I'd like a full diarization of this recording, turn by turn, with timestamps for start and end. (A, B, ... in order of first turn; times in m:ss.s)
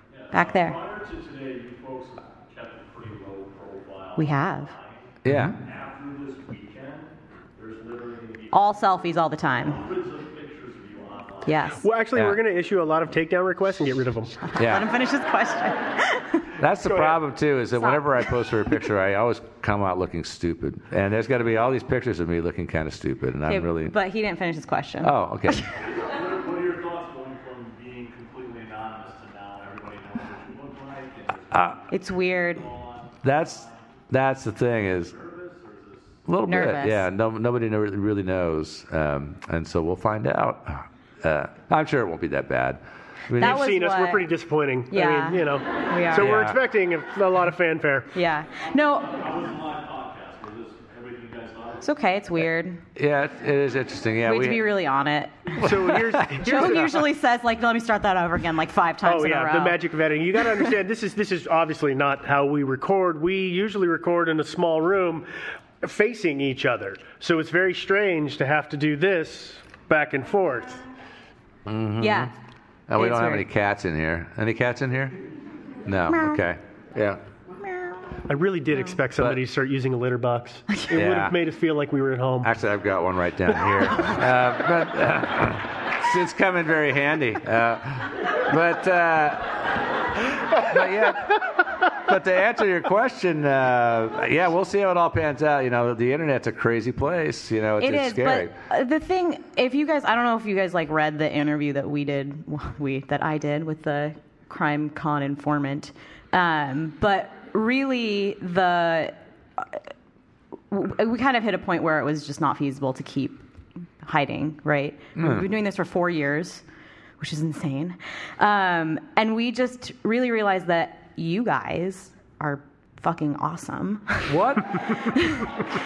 0:00.1-0:08.9 A
0:00.3-0:00.8 B
0:04.2-0:04.7 B
0:05.2-0:05.6 C
0:08.5-0:09.8 B
0:09.6-0:11.7 A
0:11.4-0:11.8 B
0:11.8-0:14.3 D
0:12.1-0:12.4 C
0:14.4-0:16.5 B
0:14.6-0:14.9 C
0:16.6-0:24.0 C
0:17.8-0:18.2 B
0:23.5-0:25.6 B
0:25.0-0:25.7 C
0:25.8-0:34.0 A
0:31.5-0:31.8 C
0:31.9-0:32.7 B
0:33.2-0:35.2 C
0:34.8-0:36.2 A
0:36.3-0:43.7 C
0:36.5-0:37.1 B
0:43.4-0:44.3 B
0:43.4-0:48.1 D
0:44.9-0:46.3 B
0:46.1-0:46.6 C
0:48.1-0:49.3 B
0:48.8-0:51.9 A
0:51.8-0:52.8 B
0:53.0-0:54.7 C
0:54.3-0:55.7 B
0:55.6-0:57.1 D
0:55.6-0:56.8 C
0:56.4-0:59.8 B
0:59.0-1:05.3 D
1:05.8-1:10.8 D
1:11.7-1:12.3 C
1:12.0-1:12.3 B
1:12.9-1:15.2 C
1:13.0-1:13.4 B
1:15.9-1:17.2 C
1:16.1-1:16.4 B
1:18.3-1:22.5 D
1:19.2-1:19.4 C
1:20.9-1:21.4 C
1:22.4-1:38.5 C
1:37.8-1:49.8 B
1:50.7-1:53.4 B
1:54.0-1:56.6 B
1:55.2-1:55.5 C
1:57.2-2:04.4 B
2:04.3-2:04.8 C
2:04.9-2:05.5 B